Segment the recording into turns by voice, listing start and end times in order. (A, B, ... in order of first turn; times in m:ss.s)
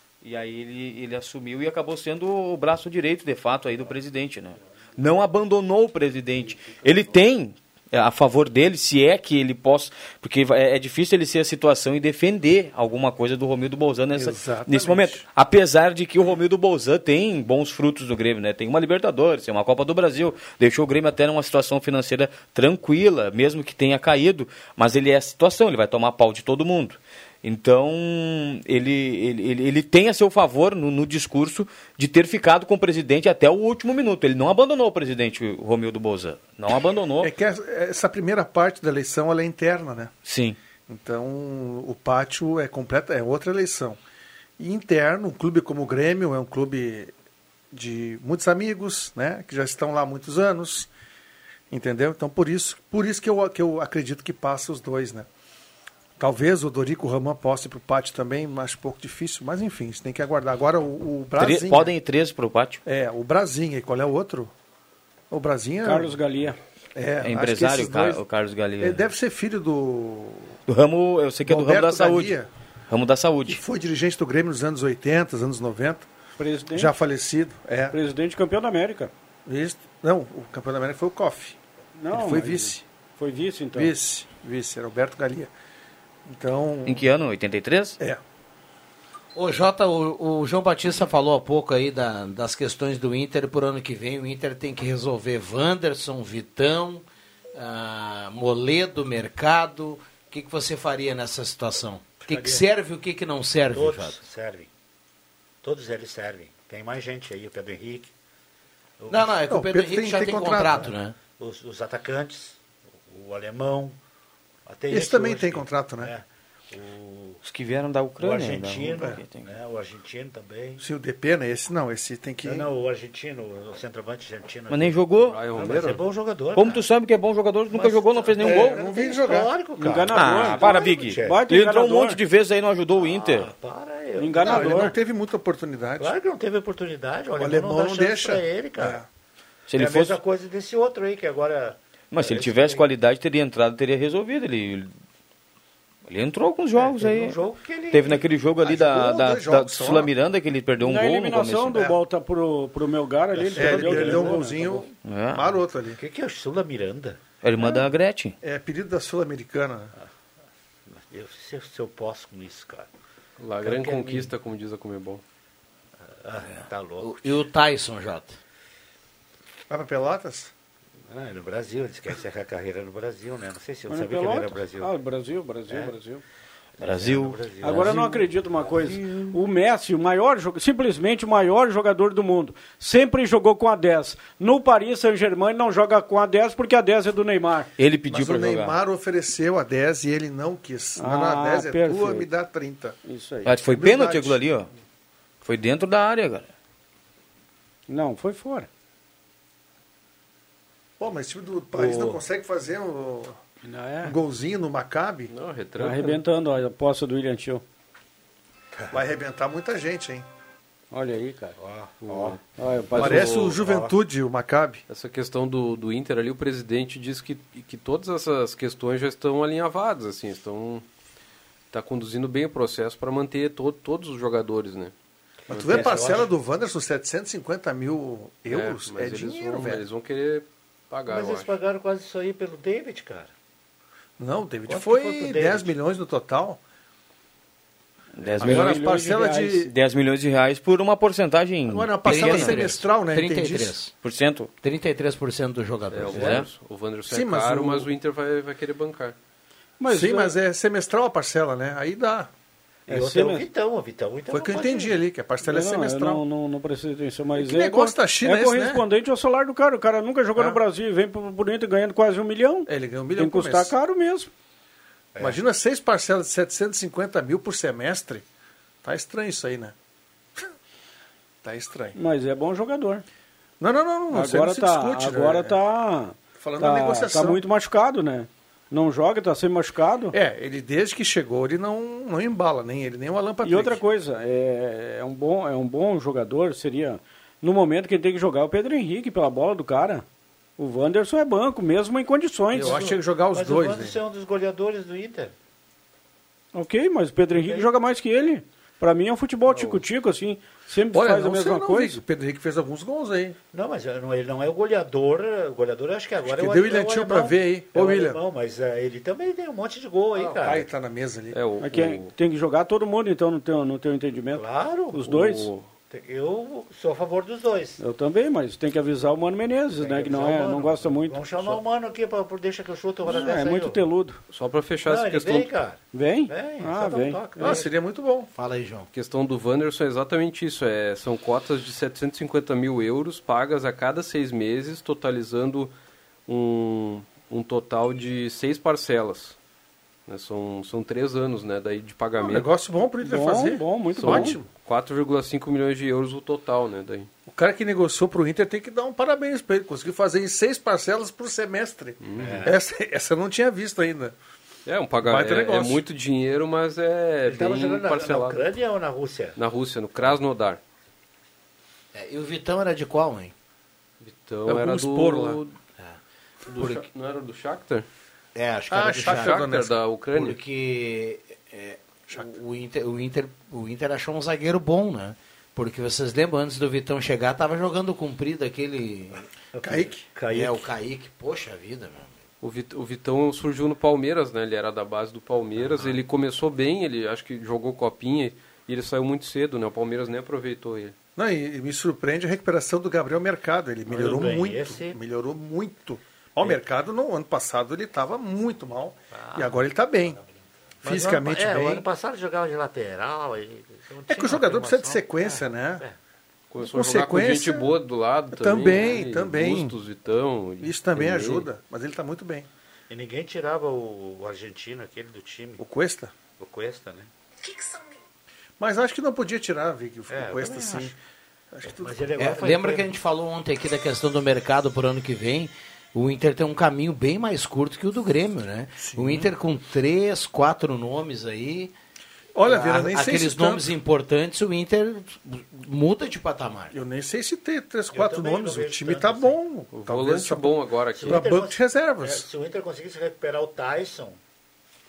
0:00.2-0:37.3 A
0:14.1-0:15.2 B
0:37.2-0:40.1 B
0:40.2-0:40.6 A
0:40.9-0:44.0 B
0:44.6-0:47.1 B
0:47.7-0:50.9 B
0:51.7-0:55.3 B
0:56.2-1:01.9 B
1:01.4-1:02.8 A
1:02.8-1:04.5 B
1:05.3-1:06.2 B
1:05.8-1:06.6 C
1:06.9-1:08.2 B
1:07.2-1:09.1 A
1:08.8-1:10.6 B
1:10.7-1:12.4 A
1:11.4-1:12.5 B
1:12.9-1:13.6 A
1:13.4-1:16.1 B
1:16.4-1:16.9 C
1:16.7-1:18.0 B
1:17.9-1:19.1 C
1:19.4-1:21.6 B
1:22.0-1:23.9 C
1:22.1-1:22.8 B
1:23.7-1:25.5 B
1:26.2-1:27.1 B
1:26.8-1:28.0 A
1:29.3-1:44.2 D
1:42.2-1:42.6 E
1:43.7-1:44.7 E
1:45.6-1:48.1 E
1:49.0-1:49.4 E
1:49.1-1:51.2 D
1:49.5-1:50.9 B
1:51.4-1:54.0 E
1:54.6-1:57.4 E
1:54.9-1:56.1 B
1:57.4-1:59.5 A
1:58.2-2:00.8 E
2:00.8-2:02.7 B
2:02.4-2:06.8 E
2:04.7-2:05.4 A
2:05.2-2:06.0 F
2:06.5-2:08.8 A
2:07.7-2:11.4 E
2:08.4-2:09.5 B
2:09.8-2:12.2 C
2:10.1-2:13.5 A
2:12.9-2:14.9 E
2:14.2-2:14.9 C
2:14.4-2:16.1 B
2:16.0-2:19.0 E
2:17.4-2:19.0 B
2:19.7-2:20.2 A
2:19.7-2:22.8 E
2:22.1-2:24.9 A
2:26.0-2:27.4 A
2:26.7-2:28.3 E
2:27.9-2:31.8 A
2:28.6-2:30.1 B
2:30.8-2:34.9 C
2:31.7-2:32.0 B
2:33.3-2:34.7 E
2:33.5-2:36.0 B
2:35.0-2:35.6 A
2:36.0-2:37.2 E
2:37.4-2:38.4 A
2:37.6-2:37.8 B
2:38.4-2:39.9 B
2:40.9-2:42.9 E
2:43.4-2:45.2 F
2:43.6-2:44.3 E
2:46.2-2:47.2 E
2:47.0-2:48.4 D
2:49.7-2:50.5 B
2:51.1-2:54.9 E
2:53.9-2:56.2 C
2:55.7-2:55.9 E
2:56.8-2:58.9 E
2:56.8-2:58.0 A
2:57.6-3:07.7 C
3:07.8-3:08.8 A
3:08.1-3:13.0 B
3:11.0-3:12.3 C
3:13.0-3:13.5 C
3:13.4-3:14.7 A
3:13.7-3:14.4 B
3:15.4-3:16.5 A
3:17.9-3:18.7 C
3:21.0-3:23.4 B
3:21.8-3:22.1 C
3:23.6-3:24.1 C
3:24.0-3:25.3 B
3:25.3-3:26.2 F
3:25.8-3:27.6 C
3:28.9-3:30.2 B
3:30.9-3:31.5 C
3:31.6-3:32.4 E
3:32.1-3:32.4 F
3:32.1-3:33.3 C
3:32.9-3:33.6 F
3:32.9-3:34.8 B
3:33.5-3:33.9 E
3:34.9-3:40.8 F
3:41.7-3:44.9 F
3:45.5-3:46.3 E
3:45.5-3:49.8 B
3:45.5-3:46.2 F
3:48.5-3:51.5 F
3:51.1-3:53.3 E
3:54.2-3:56.6 B
3:54.7-3:55.7 E
3:58.2-3:58.8 A
3:58.3-3:59.6 C
3:58.4-3:59.7 B
3:59.6-4:02.7 A
4:01.7-4:03.8 B
4:02.0-4:03.9 D
4:04.0-4:04.5 A
4:04.6-4:06.4 D
4:05.9-4:09.2 F
4:06.1-4:06.4 A
4:07.1-4:07.9 B
4:09.8-4:10.3 C
4:09.9-4:12.3 B
4:12.9-4:13.4 C
4:12.9-4:15.0 E
4:14.3-4:16.2 B
4:15.4-4:24.3 C
4:17.4-4:18.8 B
4:20.4-4:20.6 B
4:22.7-4:23.7 B
4:25.2-4:28.2 B
4:28.8-4:29.7 B
4:31.4-4:32.0 B
4:32.0-4:33.0 C
4:33.6-4:35.6 B
4:34.1-4:40.1 C
4:36.4-4:37.4 B
4:40.1-4:43.8 B
4:43.4-4:50.0 C
4:50.6-4:52.8 C
4:52.5-4:54.0 B
4:52.6-4:55.3 E
4:56.5-5:02.0 C
4:57.3-4:57.7 E
4:59.5-4:59.8 B
5:00.9-5:03.4 B
5:03.5-5:10.7 E
5:06.2-5:08.2 B
5:10.3-5:11.4 B
5:11.3-5:12.1 F
5:11.6-5:15.6 C
5:14.4-5:15.1 E
5:15.1-5:15.6 F
5:15.9-5:17.8 E
5:17.8-5:21.6 C
5:19.8-5:23.8 E
5:23.0-5:24.2 C
5:24.3-5:25.5 F
5:24.8-5:27.7 E
5:25.9-5:27.6 C
5:27.4-5:28.3 B
5:28.3-5:28.9 D
5:28.9-5:35.7 F
5:36.3-5:39.4 F
5:40.1-5:42.5 F
5:42.2-5:44.5 B
5:43.0-5:44.4 C
5:44.0-5:47.1 F
5:47.2-5:54.1 B
5:52.0-5:52.5 F
5:52.2-5:52.6 E
5:54.6-5:58.4 F
5:55.0-5:55.8 B
5:57.3-5:59.4 E
5:59.4-6:00.6 F
6:01.9-6:03.3 D
6:04.0-6:05.5 F
6:04.5-6:05.4 B
6:06.5-6:06.8 D
6:06.5-6:07.8 F
6:08.3-6:09.5 D
6:08.7-6:09.8 B
6:09.0-6:10.4 F
6:10.1-6:19.2 D
6:19.5-6:20.6 E
6:19.6-6:20.1 B
6:20.3-6:22.1 D
6:22.4-6:30.9 F
6:25.7-6:25.9 D
6:31.2-6:40.2 B
6:33.9-6:35.0 E
6:39.1-6:39.6 E
6:40.8-6:41.8 B
6:40.8-6:46.0 E
6:44.1-6:45.8 B
6:46.5-6:51.5 F
6:46.7-6:47.7 B
6:48.3-6:49.8 B
6:50.6-6:52.5 B
6:52.9-6:55.6 E
6:55.6-6:56.1 B
6:56.4-6:57.9 E
6:58.6-7:00.9 B
7:00.1-7:00.9 E
7:01.5-7:02.0 B
7:01.7-7:03.0 E
7:02.2-7:11.7 D
7:08.8-7:09.3 B
7:12.3-7:13.7 B
7:12.4-7:16.7 D
7:16.7-7:22.2 B
7:17.9-7:19.4 E
7:19.7-7:21.3 F
7:21.0-7:24.2 E